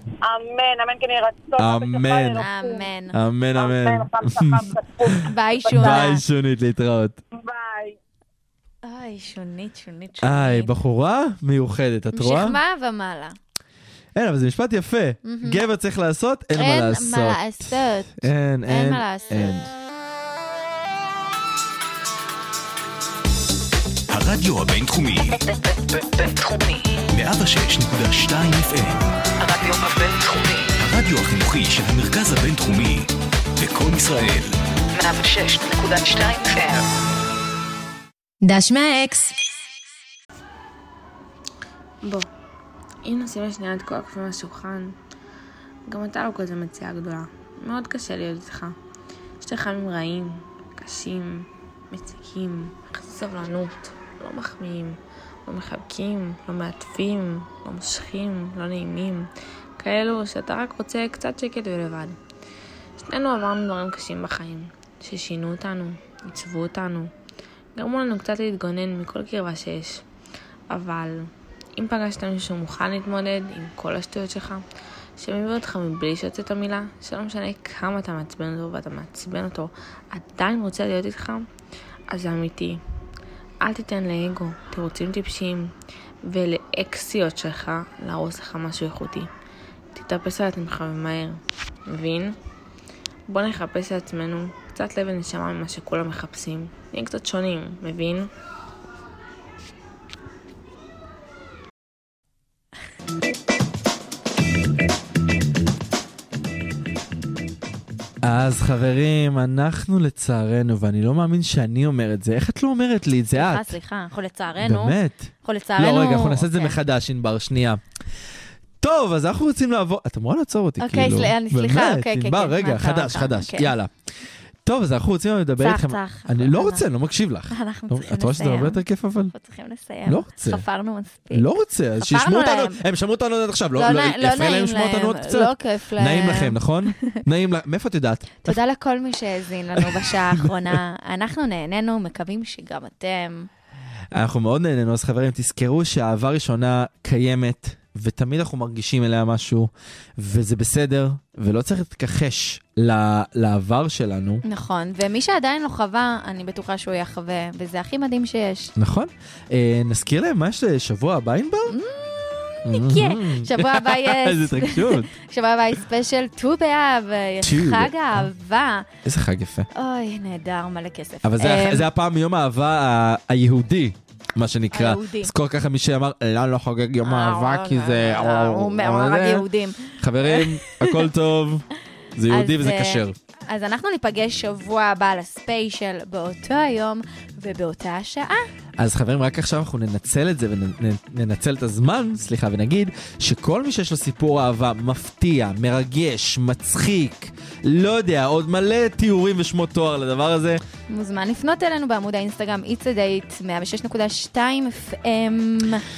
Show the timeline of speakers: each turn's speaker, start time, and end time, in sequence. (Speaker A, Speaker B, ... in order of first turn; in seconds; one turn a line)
Speaker A: 0.2-2.9
Speaker B: 1.6-2.4
Speaker C: 2.4-3.2
Speaker B: 3.1-5.2
Speaker A: 3.5-6.1
Speaker C: 5.3-6.2
Speaker B: 5.7-7.2
Speaker A: 7.3-8.0
Speaker C: 8.8-10.7
Speaker B: 10.2-12.6
Speaker C: 12.1-13.4
Speaker B: 14.2-19.7
Speaker C: 15.2-15.6
Speaker C: 16.6-19.6
Speaker D: 24.1-25.4
Speaker E: 25.3-27.1
Speaker D: 27.1-29.1
Speaker E: 29.4-30.8
Speaker D: 30.8-34.6
Speaker E: 34.9-36.9
Speaker C: 38.4-39.3
Speaker F: 42.0-42.3
Speaker F: 43.0-45.0
Speaker F: 45.9-48.8
Speaker F: 49.4-62.2
Speaker F: 63.0-67.1
Speaker F: 67.8-70.1
Speaker F: 70.7-74.7
Speaker F: 75.2-81.5
Speaker F: 82.1-82.8
Speaker F: 83.6-89.3
Speaker F: 89.9-92.4
Speaker F: 93.3-98.3
Speaker B: 108.2-113.7
Speaker C: 113.3-116.8
Speaker B: 114.6-117.8
Speaker B: 118.8-123.9
Speaker C: 120.8-123.7
Speaker B: 124.6-129.3
Speaker C: 125.6-126.8
Speaker C: 127.5-132.8
Speaker B: 130.1-130.7
Speaker B: 131.3-138.6
Speaker C: 133.8-137.2
Speaker C: 138.4-143.5
Speaker B: 139.8-140.8
Speaker B: 144.1-154.4
Speaker C: 154.4-158.7
Speaker B: 158.8-161.8
Speaker C: 161.7-168.9
Speaker B: 162.7-165.1
Speaker B: 167.4-168.3
Speaker B: 169.1-169.7
Speaker C: 169.7-171.9
Speaker B: 171.2-179.5
Speaker C: 174.7-175.3
Speaker C: 177.0-181.1
Speaker B: 180.0-183.2
Speaker C: 182.3-188.5
Speaker B: 188.8-200.6
Speaker C: 200.9-205.8